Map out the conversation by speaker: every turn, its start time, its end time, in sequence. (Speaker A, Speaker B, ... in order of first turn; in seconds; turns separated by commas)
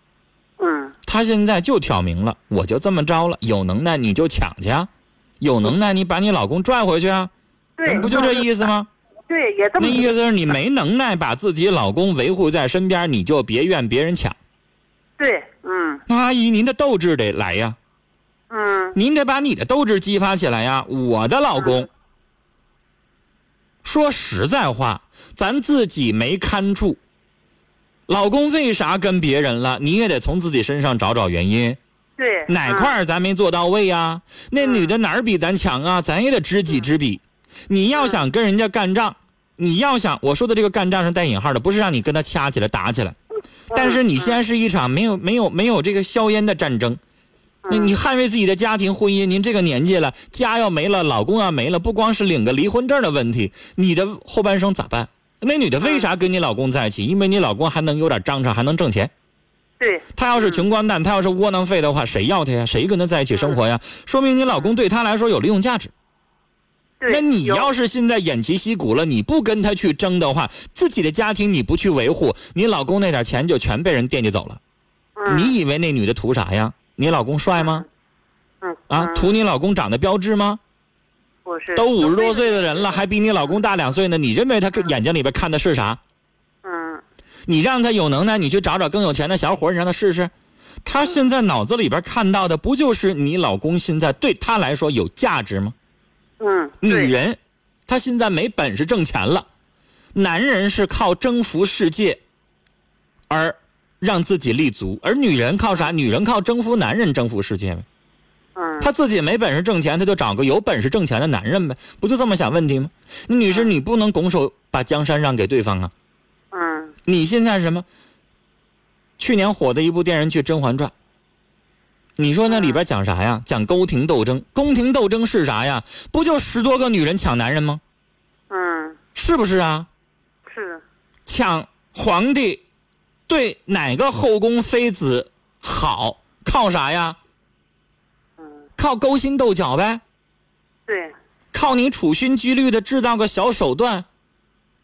Speaker A: 0.6-0.9, Speaker B: 1.1-4.9, Speaker B: 5.4-7.3, Speaker A: 7.8-8.7, Speaker B: 7.8-8.9, Speaker A: 9.3-10.1, Speaker B: 9.8-14.3, Speaker A: 15.2-16.0, Speaker B: 16.1-17.8, Speaker A: 18.5-19.0, Speaker B: 18.9-21.9, Speaker A: 21.6-21.8, Speaker B: 23.8-27.0, Speaker B: 28.1-31.8, Speaker A: 32.2-32.9, Speaker B: 32.5-43.2, Speaker A: 34.6-34.9, Speaker A: 37.9-38.2, Speaker A: 43.7-44.4, Speaker B: 43.7-47.0, Speaker A: 47.6-48.0, Speaker B: 47.7-59.1, Speaker A: 55.8-56.1, Speaker A: 59.8-60.6, Speaker B: 60.1-65.9, Speaker A: 67.0-67.7, Speaker B: 67.1-74.6, Speaker A: 75.2-75.5, Speaker B: 75.3-77.8, Speaker A: 77.5-77.8, Speaker A: 78.6-79.3, Speaker B: 78.9-80.6, Speaker A: 81.4-83.0, Speaker B: 81.7-86.0, Speaker A: 86.6-87.0, Speaker B: 87.5-90.3, Speaker B: 90.8-95.7, Speaker A: 96.4-97.1, Speaker B: 96.8-99.5, Speaker B: 100.1-102.2, Speaker B: 103.3-107.8, Speaker A: 108.5-108.9, Speaker B: 108.8-115.9, Speaker A: 113.5-113.7, Speaker A: 116.5-116.9, Speaker B: 117.0-117.8, Speaker B: 119.2-120.9, Speaker B: 122.2-127.8, Speaker A: 122.5-122.8, Speaker A: 128.5-129.0, Speaker B: 129.1-129.9, Speaker A: 130.5-130.8, Speaker B: 131.2-132.6, Speaker B: 133.3-137.2, Speaker B: 138.8-140.0, Speaker A: 140.9-141.1, Speaker B: 141.5-144.1